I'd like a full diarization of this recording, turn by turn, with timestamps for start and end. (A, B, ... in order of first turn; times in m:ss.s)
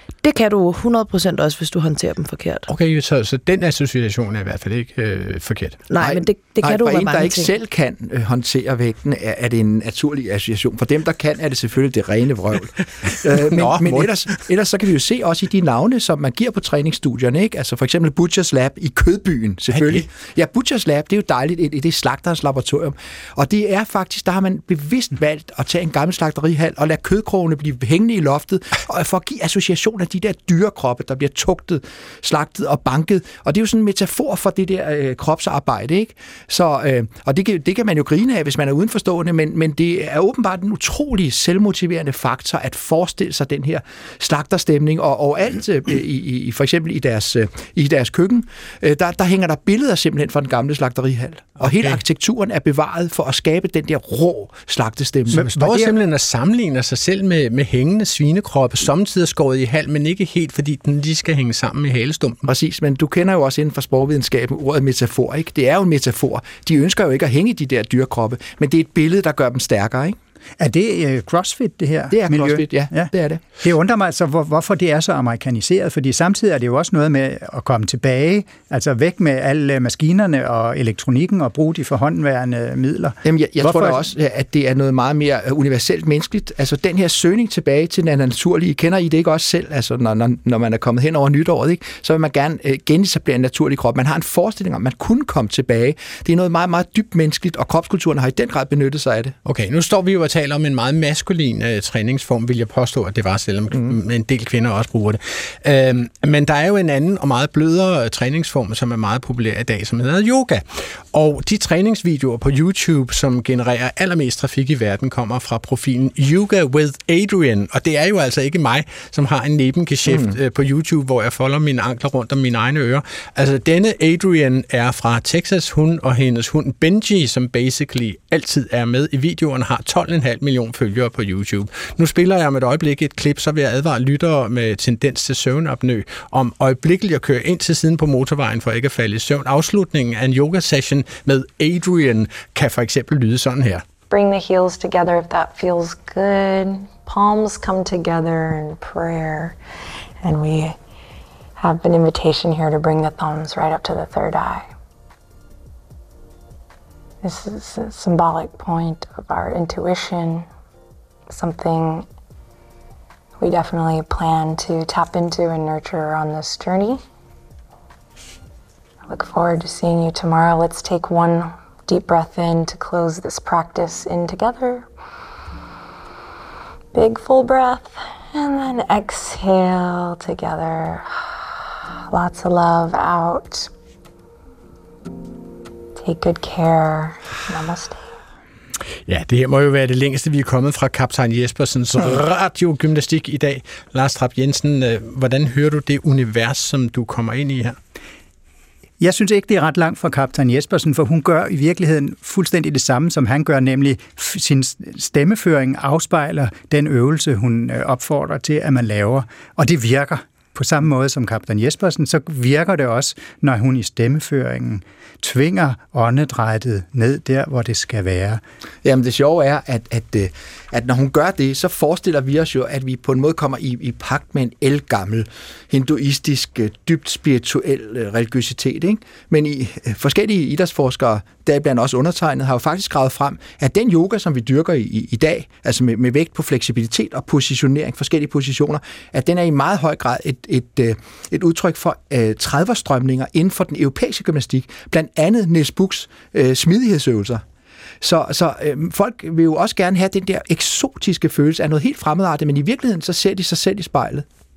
0:00.2-0:02.6 A
0:02.7-0:05.8 B
0:05.9-0:07.5 A
0:06.0-0:55.5 C
0:13.0-0:14.1 B
0:19.7-0:20.0 B
0:51.6-0:52.0 B
0:55.3-1:02.4 B
0:55.3-0:55.9 D
1:02.4-1:10.2 C
1:10.6-1:24.0 D
1:12.1-1:13.4 C
1:23.2-1:39.4 C
1:39.4-2:23.8 B
2:00.1-2:00.3 C
2:24.1-2:29.6 E
2:30.2-2:30.8 E
2:31.6-2:34.7 E
2:37.2-2:40.5 E
2:41.3-2:42.1 E
2:43.4-2:47.0 E
2:49.1-2:54.9 E
2:56.9-3:01.1 E
3:02.1-3:03.7 E
3:06.0-3:08.0 E
3:09.1-3:17.8 B
3:19.0-3:38.4 D
3:38.8-4:07.4 C
4:08.0-4:14.2 C